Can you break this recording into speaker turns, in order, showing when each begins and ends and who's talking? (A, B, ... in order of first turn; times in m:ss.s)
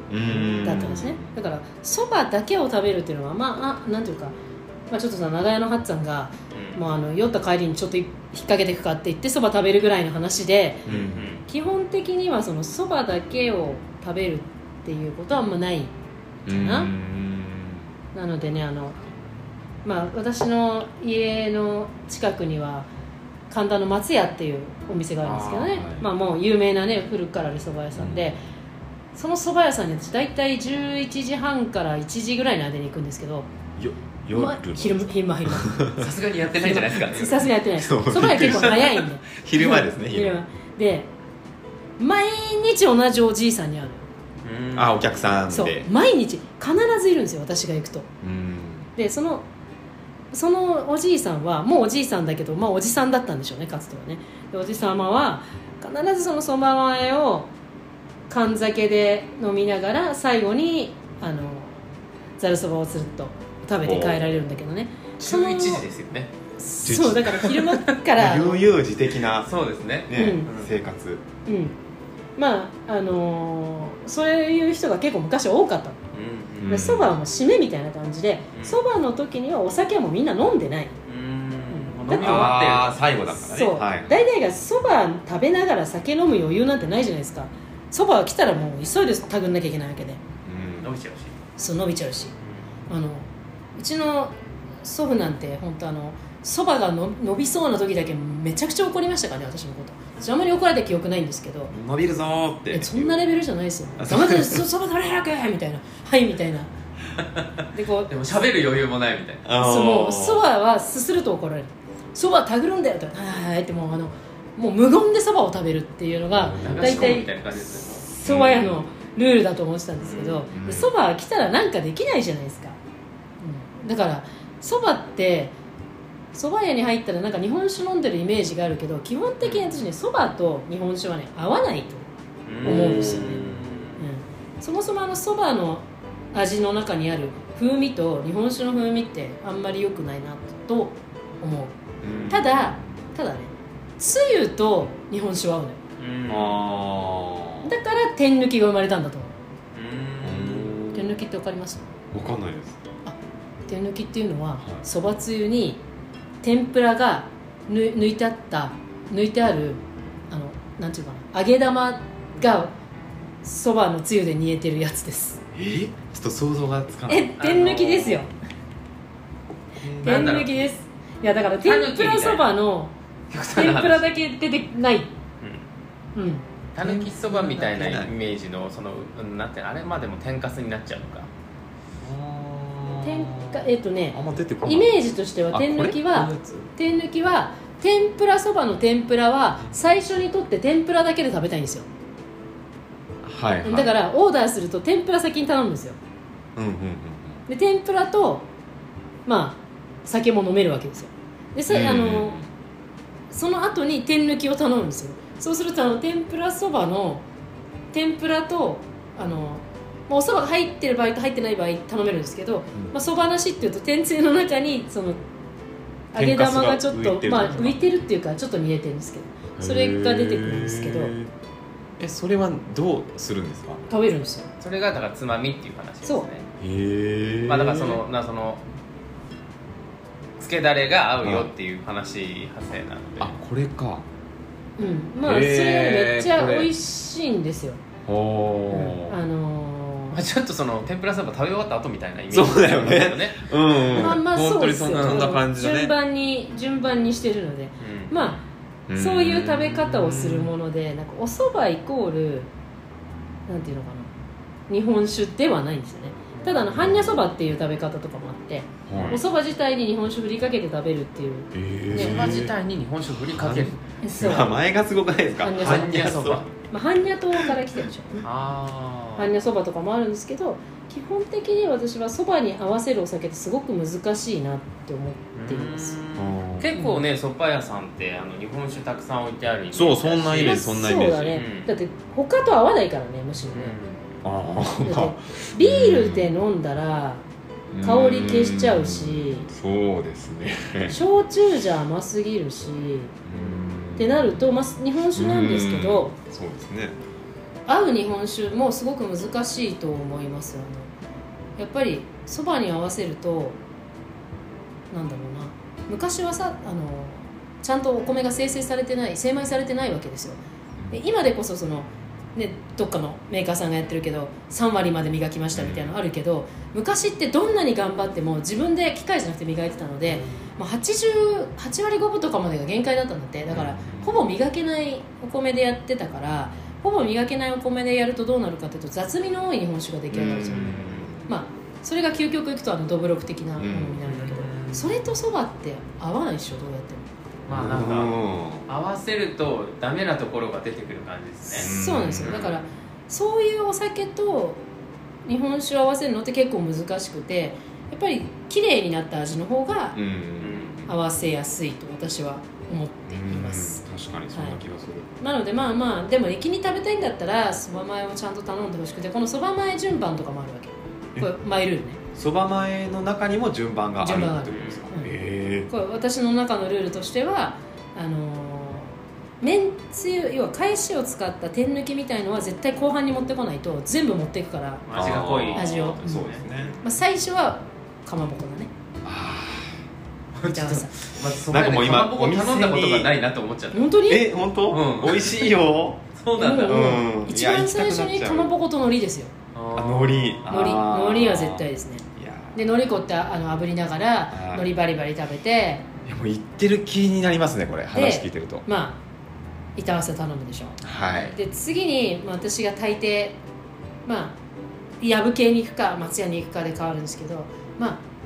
0:00.1-0:01.3 A
0:00.3-0:00.7 B
0:00.6-0:04.3 C
0:04.9-0:10.9 C
0:06.5-0:06.8 B
0:10.9-0:11.2 A
0:10.9-0:11.4 B
0:11.5-0:15.9 C
0:16.4-0:17.9 A
0:16.5-0:16.9 C
0:18.1-0:19.0 C
0:19.8-0:22.9 C
0:23.5-0:28.4 C
0:25.2-0:26.1 A
0:27.9-0:28.4 A
0:29.1-0:33.5 C
0:33.8-0:36.1 A
0:34.3-0:35.8 C
0:36.0-0:37.5 B
0:36.6-0:41.1 C
0:37.8-0:40.4 A
0:42.0-0:44.1 C
0:44.4-0:45.2 B
0:44.7-0:45.9 A
0:45.5-0:48.1 C
0:48.2-0:48.9 A
0:49.0-0:49.4 C
0:50.3-0:57.5 C
0:58.3-1:01.8 C
1:02.4-1:05.8 C
1:03.8-1:04.3 A
1:05.2-1:06.3 B
1:06.6-1:08.7 C
1:06.8-1:07.6 A
1:08.2-1:09.5 A
1:09.4-1:10.7 B
1:10.1-1:11.2 A
1:10.1-1:10.5 C
1:11.4-1:11.8 C
1:12.4-1:16.0 C
1:16.1-1:16.8 B
1:16.6-1:17.2 A
1:16.7-1:20.9 C
1:18.5-1:18.8 B
1:21.0-1:23.0 B
1:21.7-1:22.7 C
1:22.1-1:24.2 A
1:23.3-1:30.2 C
1:30.4-1:30.9 A
1:30.8-1:31.4 B
1:31.6-1:32.3 C
1:32.9-1:41.7 C
1:41.7-1:43.2 A
1:42.7-1:46.7 C
1:44.0-1:44.6 A
1:47.7-1:48.1 C
1:48.1-1:49.4 B
1:49.4-1:50.4 A
1:49.6-1:57.3 C
1:56.3-1:57.2 A
1:56.6-1:58.1 B
1:58.1-1:58.9 A
1:58.2-2:02.8 C
2:00.0-2:00.5 B
2:00.5-2:00.9 A
2:03.4-2:05.5 C
2:06.3-2:12.1 C
2:09.4-2:09.8 B
2:12.4-2:14.0 B
2:12.6-2:13.5 A
2:12.6-2:21.7 C
2:22.0-2:22.6 A
2:22.3-2:25.8 C
2:26.0-2:26.7 B
2:26.3-2:27.7 A
2:27.6-2:29.3 C
2:29.7-2:30.8 B
2:30.2-2:31.2 A
2:30.9-2:31.8 C
2:32.1-2:32.8 A
2:33.0-2:35.8 C
2:36.4-2:42.7 C
2:43.4-2:45.4 C
2:45.5-2:47.3 A
2:47.1-2:48.3 C
2:47.4-2:48.3 B
2:49.8-2:50.4 A
2:50.0-2:50.6 B
2:50.0-2:52.9 C
2:51.6-2:52.5 B
2:53.3-2:54.1 B
2:53.5-2:55.1 C
2:55.4-2:55.6 B
2:56.1-2:56.4 C
2:56.7-3:01.3 B
2:56.8-2:58.1 A
3:02.0-3:06.7 A
3:03.0-3:11.9 C
3:13.2-3:13.9 A
3:13.6-3:16.0 C
3:16.6-3:17.4 A
3:17.5-3:18.5 C
3:19.2-3:22.4 C
3:21.7-3:22.5 A
3:23.3-3:27.2 C
3:27.9-3:35.2 C
3:36.1-3:41.1 C
3:36.1-3:37.9 A
3:39.6-3:41.3 A
3:42.0-3:43.8 A
3:43.9-3:44.5 C
3:44.6-3:46.5 B
3:46.6-3:48.0 A
3:47.5-3:48.6 B
3:50.4-3:53.3 B
3:51.2-3:51.5 A
3:53.2-3:54.0 A
3:54.8-3:57.8 C
3:55.2-3:56.7 A
3:58.0-3:59.2 A
3:58.7-4:00.2 C
4:00.1-4:04.2 B
4:02.3-4:05.9 A
4:03.9-4:08.4 C
4:04.9-4:05.3 B
4:07.8-4:08.4 B
4:08.9-4:10.5 A
4:08.9-4:12.5 C
4:13.5-4:14.1 C
4:14.7-4:22.3 C
4:16.3-4:16.7 B
4:16.7-4:17.2 A
4:18.9-4:19.2 A
4:21.5-4:22.5 A
4:21.9-4:23.8 B
4:23.2-4:26.4 A
4:24.0-4:24.6 C
4:25.4-4:28.2 C
4:25.5-4:26.5 B
4:28.2-4:29.3 B
4:29.2-4:36.0 C
4:35.4-4:40.7 B
4:36.2-4:36.7 A
4:36.7-4:37.0 C
4:39.7-4:41.4 A
4:40.3-4:43.8 C
4:41.3-4:41.7 B
4:43.5-4:44.1 B
4:44.2-4:46.3 A
4:44.8-4:47.2 C
4:47.7-4:51.0 A
4:47.8-4:49.5 C
4:50.9-4:53.1 C
4:53.2-4:54.5 A
4:54.0-4:56.1 C
4:55.1-4:57.0 A
4:57.7-5:00.9 C
5:01.6-5:03.6 C
5:04.9-5:10.4 C
5:10.9-5:37.1 C
5:15.5-5:16.0 A
5:23.5-5:24.2 A
5:30.1-5:31.3 A
5:33.6-5:34.0 A
5:34.0-5:35.0 B
5:37.5-5:41.7 B
5:37.5-5:38.6 A
5:41.5-5:44.6 C
5:41.5-5:42.5 A
5:42.2-5:42.5 B
5:45.2-5:50.0 C
5:49.9-5:50.9 A
5:50.4-5:50.8 B
5:50.8-5:54.6 C
5:53.1-5:55.1 A
5:55.2-6:02.0 C
6:02.1-6:05.7 A
6:04.0-6:05.1 C
6:04.5-6:04.8 B
6:05.7-6:14.9 C
6:14.9-6:16.5 B
6:14.9-6:16.8 A
6:15.5-6:18.7 C
6:19.0-6:19.8 A
6:20.4-6:23.9 B
6:20.4-6:20.9 C
6:21.4-6:23.1 A
6:23.7-6:24.3 C
6:24.1-6:26.0 A
6:24.7-6:25.5 B
6:26.2-6:26.9 B
6:26.4-6:29.3 C
6:26.6-6:28.5 A
6:29.5-6:30.5 B
6:29.7-6:32.6 A
6:30.5-6:35.8 C
6:34.3-6:34.7 A
6:36.0-6:38.6 A
6:37.9-6:39.0 C
6:39.8-6:43.4 C
6:40.8-6:41.4 A
6:44.0-6:44.4 C
6:45.0-6:48.0 C